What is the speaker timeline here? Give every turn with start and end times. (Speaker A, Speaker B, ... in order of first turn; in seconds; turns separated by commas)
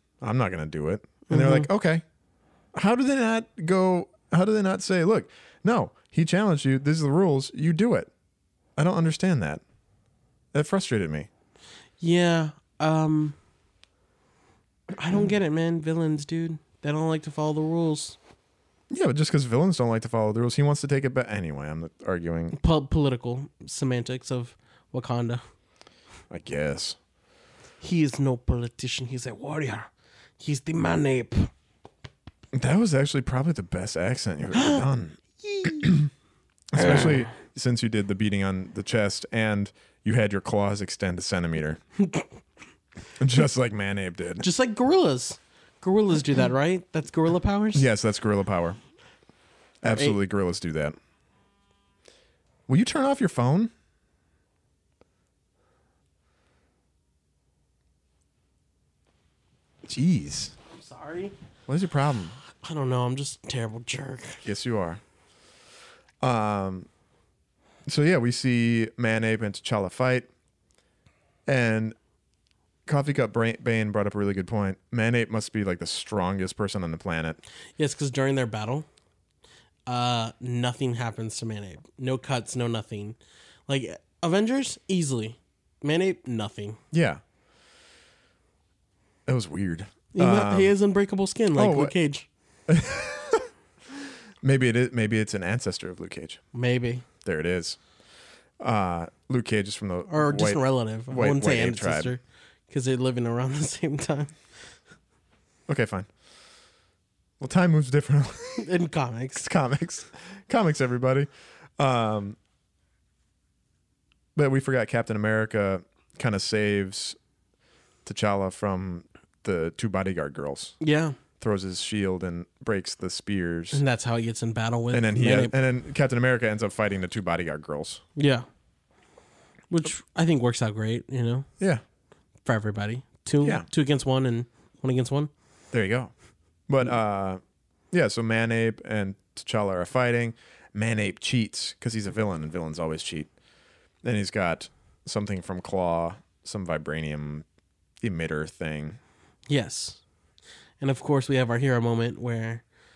Speaker A: 0.2-2.0, Speaker B: 1.3-1.7, Speaker A: 2.7-8.1, Speaker A: 8.8-9.6, Speaker A: 10.5-11.3, Speaker B: 12.0-13.4, Speaker B: 15.0-18.2, Speaker A: 18.9-22.6, Speaker B: 22.5-25.4, Speaker A: 26.3-27.0, Speaker B: 27.8-31.5, Speaker A: 32.5-36.1, Speaker B: 34.5-34.8, Speaker B: 35.5-35.8, Speaker A: 36.7-41.8, Speaker B: 36.7-37.3, Speaker B: 42.0-42.3, Speaker A: 43.2-44.5, Speaker B: 44.4-47.9, Speaker A: 47.7-48.8, Speaker A: 49.8-51.0, Speaker B: 49.9-50.2, Speaker A: 52.7-53.7, Speaker A: 59.9-60.5, Speaker B: 60.7-61.4, Speaker A: 61.7-62.4, Speaker B: 62.6-64.4, Speaker A: 64.4-65.0, Speaker A: 66.2-66.9, Speaker A: 67.9-70.3, Speaker A: 71.5-72.0, Speaker A: 72.9-77.4, Speaker B: 77.8-78.9, Speaker B: 79.9-86.8, Speaker A: 86.9-87.2, Speaker A: 89.3-90.7, Speaker B: 90.1-92.3, Speaker A: 91.6-92.0, Speaker A: 92.7-93.5, Speaker A: 94.4-96.4, Speaker B: 96.5-97.0, Speaker A: 97.2-97.8, Speaker A: 98.6-102.1, Speaker B: 100.1-104.3, Speaker A: 105.7-106.1, Speaker A: 107.4-108.7, Speaker B: 108.6-109.5, Speaker A: 109.4-112.4, Speaker A: 114.3-117.2, Speaker A: 118.0-120.8, Speaker B: 120.8-121.2, Speaker A: 121.4-123.8, Speaker B: 123.7-125.5, Speaker A: 124.9-128.0, Speaker B: 128.2-128.5, Speaker B: 129.7-131.5, Speaker B: 132.4-135.3, Speaker A: 133.4-133.7, Speaker A: 135.7-136.1, Speaker A: 136.7-137.4, Speaker A: 137.9-143.3, Speaker A: 144.0-147.4, Speaker A: 148.0-149.0, Speaker B: 149.5-150.0, Speaker B: 150.8-152.6